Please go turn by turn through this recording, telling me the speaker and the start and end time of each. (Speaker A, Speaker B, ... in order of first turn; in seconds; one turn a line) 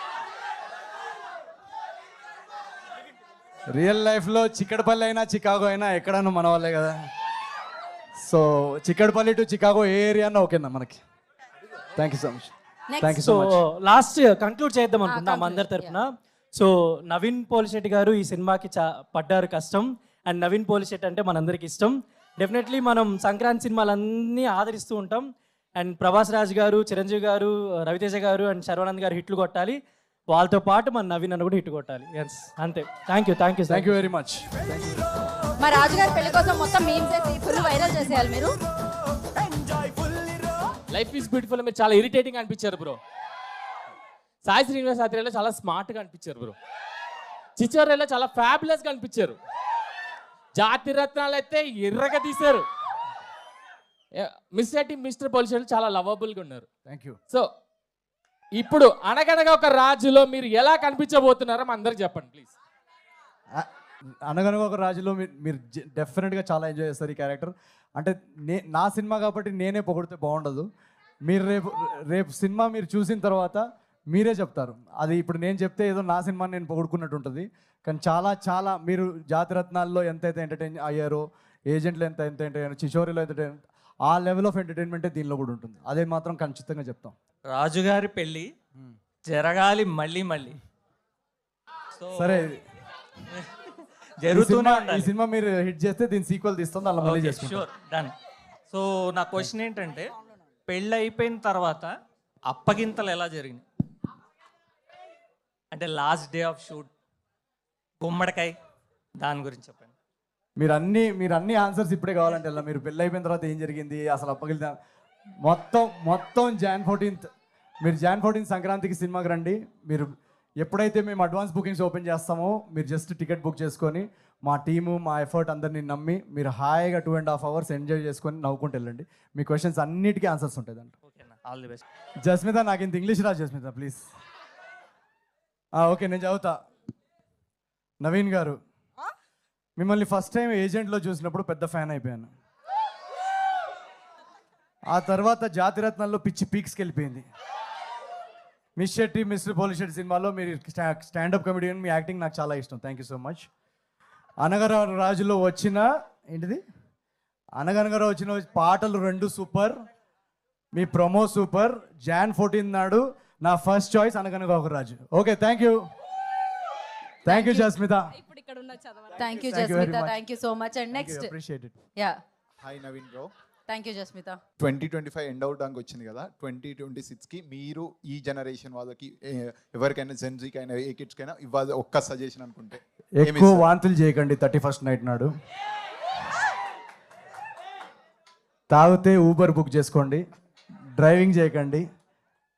Speaker A: 3.7-7.0
Speaker A: 8.2-11.0
Speaker A: 11.9-13.6
Speaker B: 12.9-13.2
Speaker C: 13.2-25.3
Speaker B: 15.1-16.0
Speaker C: 25.8-29.8
Speaker C: 30.3-33.9
Speaker A: 33.7-35.0
Speaker B: 35.6-38.6
Speaker D: 40.9-43.0
Speaker D: 44.4-46.5
Speaker D: 47.6-49.4
Speaker D: 50.6-52.6
Speaker D: 54.2-56.6
Speaker A: 56.9-57.2
Speaker D: 58.6-62.5
Speaker A: 64.3-70.7
Speaker A: 71.3-87.2
Speaker E: 87.5-88.5
Speaker E: 89.2-90.6
Speaker E: 92.0-92.5
Speaker A: 92.2-92.6
Speaker E: 94.2-95.1
Speaker A: 94.3-97.7
Speaker E: 97.0-98.1
Speaker E: 98.7-100.1
Speaker E: 100.7-103.6
Speaker E: 105.7-106.9
Speaker E: 108.0-108.6
Speaker E: 109.2-109.9
Speaker A: 110.6-114.8
Speaker A: 115.4-117.3
Speaker A: 117.8-120.1
Speaker A: 120.6-130.9
Speaker E: 131.1-131.8
Speaker A: 132.2-134.1
Speaker A: 135.8-136.6
Speaker A: 138.0-138.6
Speaker A: 139.8-142.3
Speaker A: 144.9-147.3
Speaker A: 148.8-153.5
Speaker A: 154.4-156.6
Speaker A: 157.6-159.8
Speaker A: 160.7-165.8
Speaker A: 167.2-168.2
Speaker B: 167.3-167.7
Speaker B: 168.3-171.3
Speaker A: 169.4-170.2
Speaker A: 170.9-171.8
Speaker F: 172.7-173.3
Speaker B: 173.7-174.4
Speaker F: 174.7-183.7
Speaker A: 183.2-185.3
Speaker A: 188.7-190.2
Speaker A: 191.0-191.8